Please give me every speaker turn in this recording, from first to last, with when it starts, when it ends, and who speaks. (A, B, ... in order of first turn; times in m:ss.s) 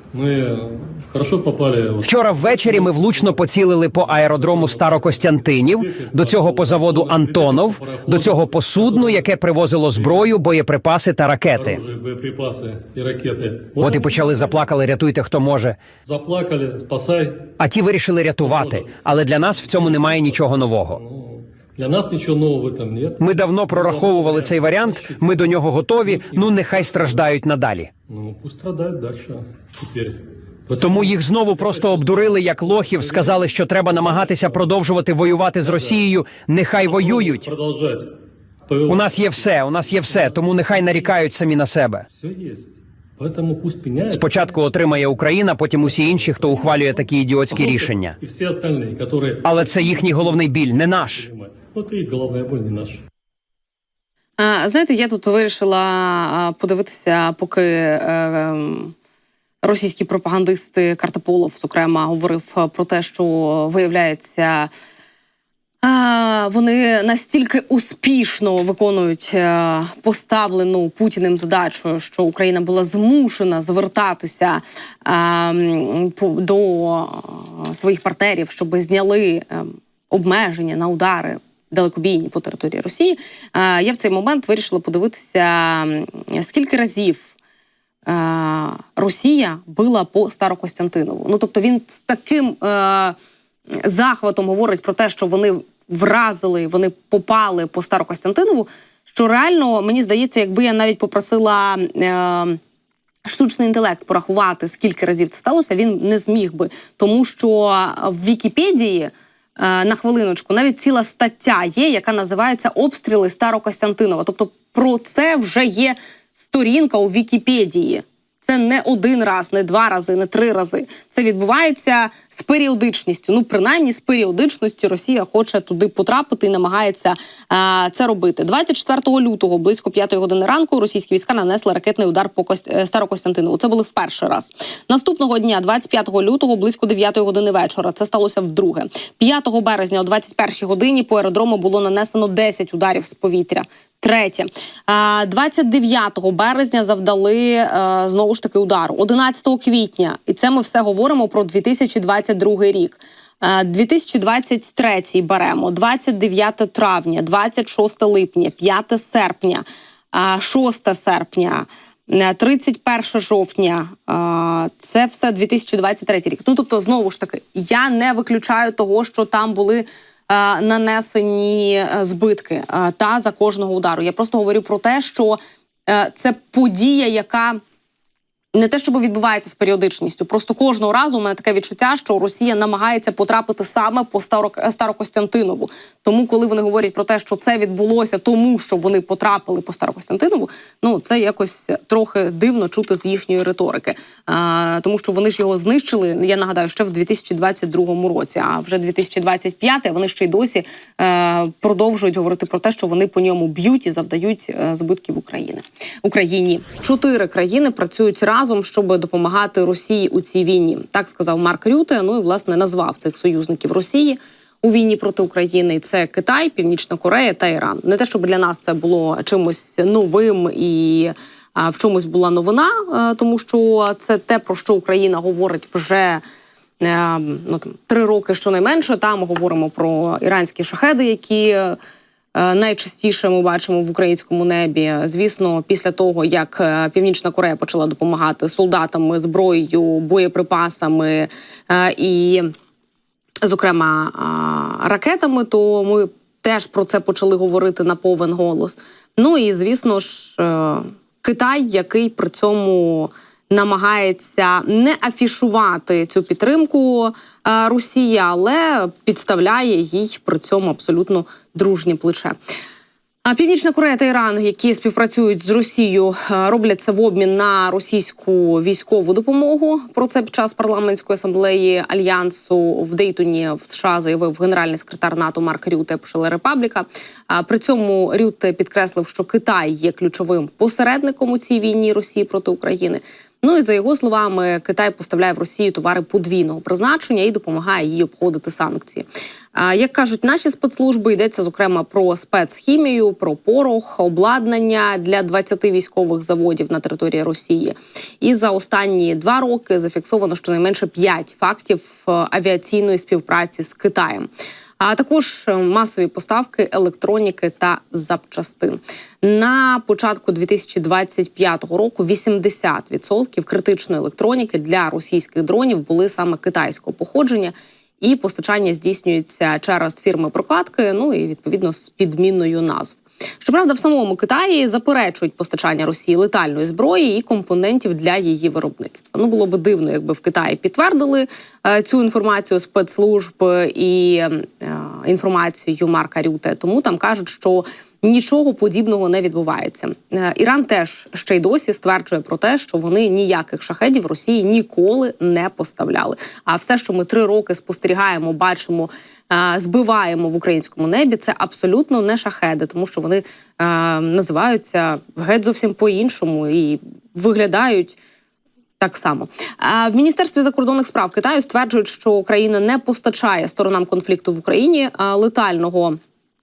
0:00.1-0:09.4 A
0:02.0-0:11.8 B
0:09.9-0:10.3 A
0:11.6-0:14.4 A
0:13.8-0:15.8 B
0:16.1-0:17.6 A
0:17.6-0:21.0 B
0:18.4-0:19.0 A
0:19.5-0:27.1 A
0:23.2-0:27.9 B
0:28.1-0:34.6 A
0:30.8-0:37.5 B
0:35.6-0:36.0 A
0:36.8-0:38.2 A
0:38.7-0:41.1 A
0:38.9-0:42.0 B
0:42.2-0:44.6 A
0:44.1-0:48.2 B
0:45.8-0:50.5 A
0:49.4-0:51.3 B
0:51.1-0:53.0 A
0:54.4-0:58.9 C
0:59.6-1:04.7 C
1:05.8-1:27.3 C
1:28.1-1:33.2 C
1:33.7-1:42.6 C
1:43.3-2:57.6 C
2:58.6-3:46.2 C
3:46.8-3:51.8 C
3:52.4-4:02.5 C
4:03.4-4:22.4 C
4:23.2-5:04.3 C
5:04.8-5:58.0 C
5:58.8-6:06.0 C